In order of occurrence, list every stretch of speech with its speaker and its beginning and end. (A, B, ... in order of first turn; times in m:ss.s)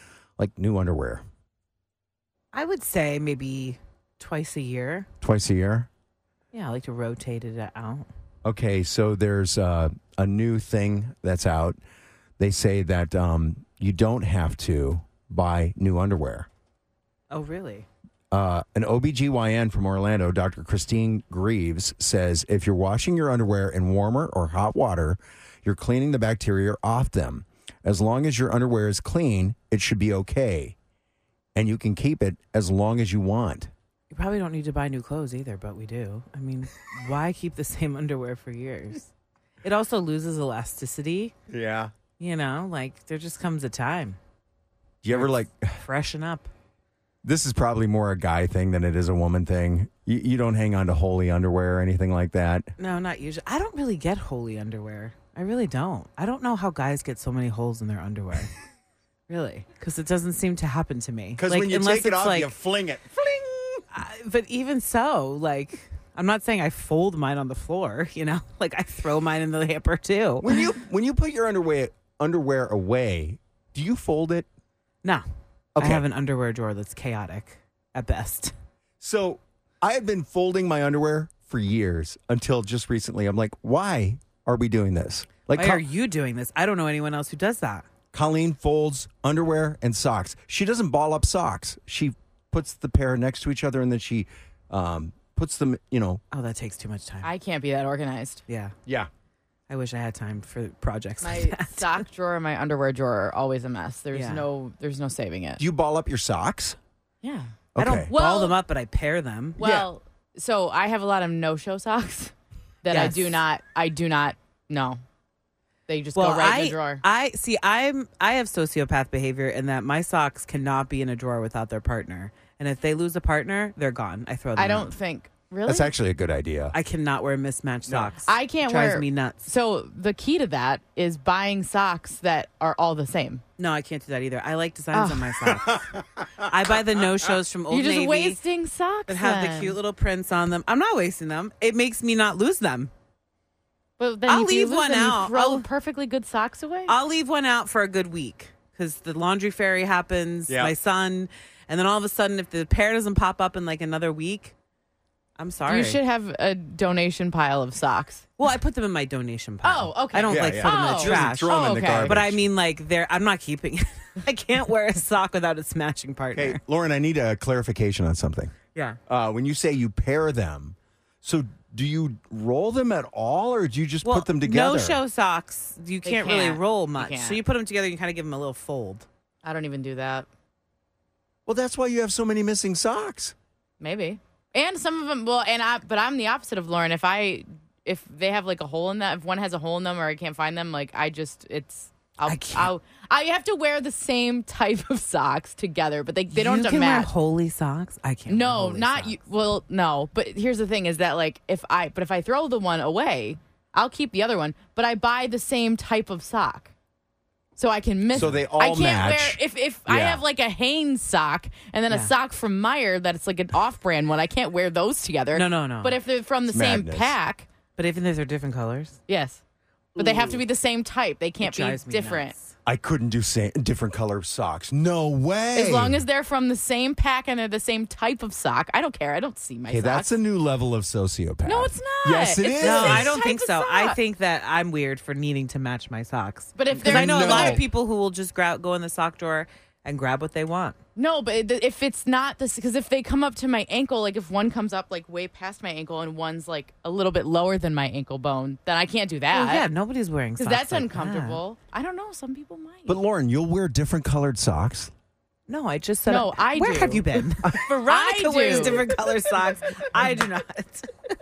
0:00.4-0:01.2 A
0:02.5-0:05.1 B
0:05.2-0:05.9 A
0:06.5-0:08.1 B
0:08.4-0:11.8 A
0:12.4-0:16.5 A
0:17.3-0:17.9 B
0:18.3-0:30.7 A
0:31.5-0:33.7 A
0:34.1-0:39.1 B
0:39.6-0:41.3 B
0:41.5-0:41.9 A
0:42.2-0:44.2 B
0:45.0-0:45.8 A
0:45.1-0:46.5 B
0:47.2-0:52.7 A
0:52.8-0:58.5 B
0:59.3-1:02.5 B
1:01.4-1:03.8 A
1:03.9-1:10.6 B
1:10.4-1:14.5 A
1:15.8-1:16.0 A
1:15.8-1:18.5 B
1:19.0-1:25.8 A
1:25.5-1:27.8 B
1:28.1-1:36.2 A
1:36.3-1:37.3 B
1:37.2-1:38.4 C
1:38.5-1:38.7 B
1:39.7-1:42.0 B
1:41.2-1:45.6 C
1:44.1-1:44.5 B
1:45.6-1:46.8 A
1:47.2-1:47.5 C
1:47.7-1:48.1 A
1:47.8-1:49.6 B
1:48.1-1:48.6 C
1:49.6-1:55.0 C
1:49.6-1:49.9 A
1:52.9-1:53.4 B
1:55.9-1:57.0 C
1:56.1-2:04.9 B
2:04.5-2:05.9 C
2:05.6-2:06.7 A
2:06.7-2:09.5 B
2:07.8-2:08.1 A
2:08.2-2:13.4 C
2:13.6-2:18.4 B
2:14.9-2:15.5 C
2:15.6-2:16.2 A
2:17.7-2:19.8 C
2:19.1-2:22.9 B
2:24.0-2:26.9 C
2:24.2-2:25.7 B
2:26.9-2:34.5 B
2:30.5-2:30.7 A
2:35.4-2:36.0 B
2:35.7-2:38.3 C
2:38.4-2:46.6 B
2:39.6-2:42.2 C
2:40.3-2:42.4 A
2:46.3-2:48.5 A
2:49.1-2:55.0 A
2:54.0-2:59.1 B
2:56.0-2:57.4 C
2:59.4-3:00.3 C
3:01.4-3:03.3 A
3:03.8-3:17.1 C
3:12.2-3:12.7 B
3:16.3-3:19.1 B
3:18.3-3:26.7 C
3:27.6-3:37.5 C
3:28.1-3:30.2 A
3:35.3-3:36.0 B
3:36.5-3:37.1 A
3:37.8-3:39.0 B
3:39.1-3:39.4 C
3:40.0-3:42.3 C
3:40.0-3:40.4 B
3:41.4-3:42.5 B
3:42.6-3:46.0 A
3:45.5-3:50.2 C
3:49.7-3:53.2 A
3:51.4-3:54.0 C
3:52.6-4:00.8 B
3:56.6-3:57.6 C
3:56.8-3:57.6 A
4:01.0-4:09.7 C
4:09.3-4:11.4 B
4:10.4-4:13.0 C
4:12.9-4:14.9 A
4:15.5-4:20.9 B
4:16.0-4:18.9 C